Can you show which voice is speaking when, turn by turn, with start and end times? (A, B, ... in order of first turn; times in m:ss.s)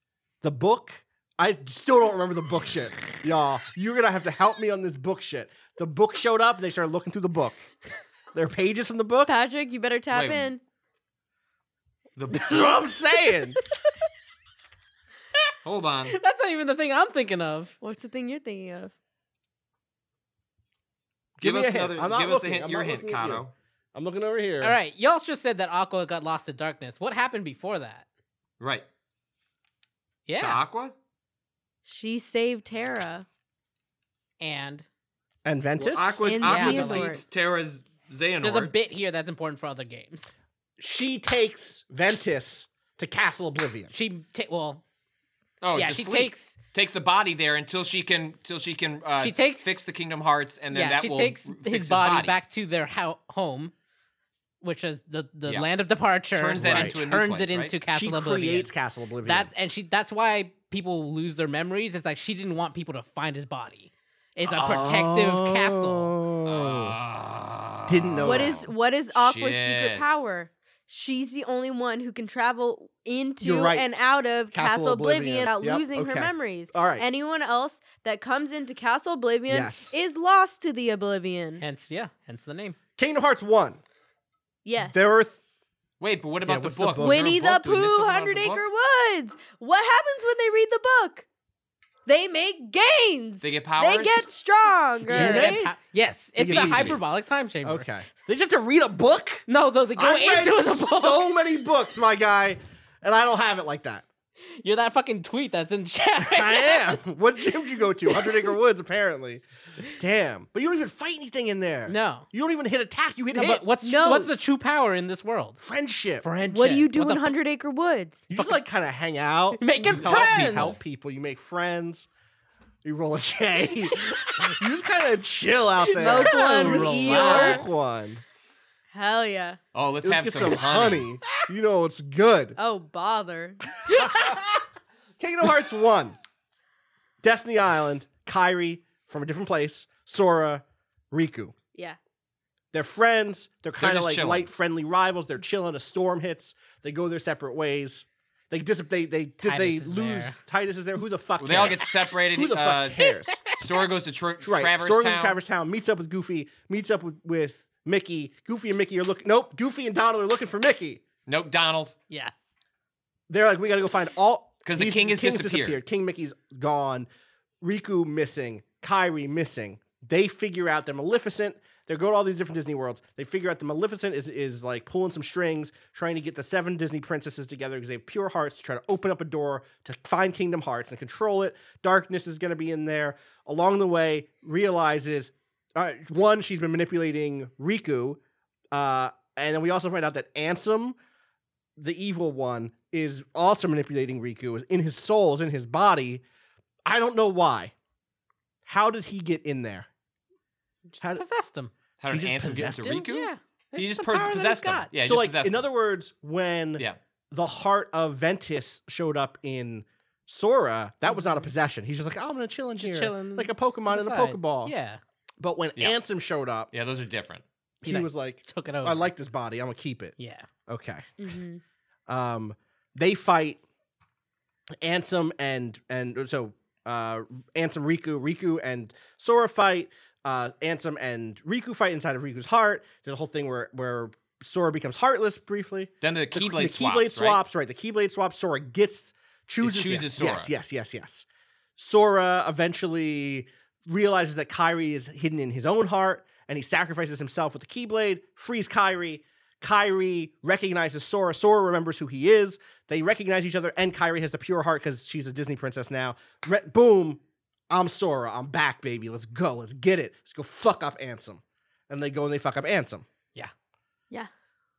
0:00.4-0:07.6 A
0:08.3-0:09.3 A
0:09.2-0:10.6 B
0:10.1-0:10.5 C
0:12.2-0:12.6 C
0:12.3-0:13.6 A
0:15.6-0:16.2 C
0:16.1-0:17.7 D
0:17.8-0:18.9 B
0:21.4-0:24.8 A
0:21.4-0:23.5 C
0:24.6-0:28.0 D
0:28.6-0:28.8 C
0:30.3-0:30.6 D
0:30.4-0:30.9 C
0:31.8-0:33.2 B
0:34.4-0:34.8 D
0:35.4-0:36.2 A
0:35.8-0:38.7 C
0:36.2-0:37.2 B
0:36.4-0:37.1 D
0:38.4-0:40.3 D
0:40.8-0:43.9 A
0:43.9-0:44.8 D
0:45.6-0:52.4 C
0:45.8-0:46.6 D
0:49.2-0:49.9 D
0:50.7-0:53.7 D
0:54.6-0:58.7 D
0:56.3-0:57.8 C
0:56.6-0:57.0 A
0:57.9-0:59.5 A
0:59.2-1:06.1 D
1:04.5-1:07.0 A
1:06.4-1:10.2 C
1:07.9-1:08.6 A
1:08.2-1:21.6 B
1:13.4-1:13.9 A
1:14.5-1:17.0 A
1:19.5-1:19.9 A
1:21.6-1:22.8 D
1:23.0-1:23.8 A
1:24.6-1:25.0 B
1:24.9-1:25.4 A
1:26.0-1:28.6 C
1:26.4-1:27.4 A
1:27.0-1:31.2 B
1:32.0-1:35.5 B
1:33.4-1:34.3 C
1:35.1-1:35.8 A
1:35.1-1:37.8 D
1:36.4-1:37.0 A
1:36.4-1:37.0 C
1:37.6-1:44.0 A
1:39.5-1:41.2 D
1:44.6-1:47.0 D
1:46.2-1:53.7 A
1:51.9-1:52.3 D
1:53.3-1:55.6 D
1:53.8-1:54.3 B
1:55.6-1:56.2 A
1:56.2-1:57.3 D
1:56.5-1:58.3 B
1:58.3-2:02.1 A
1:59.6-2:00.8 D
2:00.1-2:00.7 C
2:02.8-2:08.2 A
2:05.9-2:07.7 D
2:06.0-2:07.8 B
2:08.9-2:09.6 B
2:09.7-2:11.1 C
2:10.0-2:12.6 A
2:12.6-2:14.1 B
2:13.8-2:14.6 A
2:15.2-2:16.2 A
2:17.2-2:21.5 A
2:22.7-2:33.5 A
2:23.8-2:24.5 C
2:29.4-2:30.4 D
2:31.4-2:35.4 C
2:34.4-2:41.0 A
2:41.2-2:42.0 C
2:42.1-2:42.5 D
2:43.3-2:47.1 A
2:44.6-2:45.8 C
2:47.6-3:08.2 A
3:08.7-3:11.0 A
3:11.8-3:16.2 A
3:16.8-3:17.7 A
3:18.6-3:19.9 A
3:20.9-3:21.7 D
3:21.0-3:21.2 A
3:22.0-3:25.6 C
3:22.1-3:23.0 A
3:22.8-3:24.9 D
3:25.0-3:34.7 A
3:31.1-3:31.5 D
3:32.8-3:35.0 D
3:35.4-3:36.7 A
3:36.7-3:37.4 C
3:37.8-3:40.2 A
3:37.8-3:39.1 D
3:40.2-3:40.5 D
3:40.7-3:41.1 A
3:41.2-3:41.6 B
3:42.1-3:43.6 A
3:44.8-4:01.2 A
3:56.0-3:57.4 C
3:59.6-4:00.5 C
4:01.8-4:23.0 A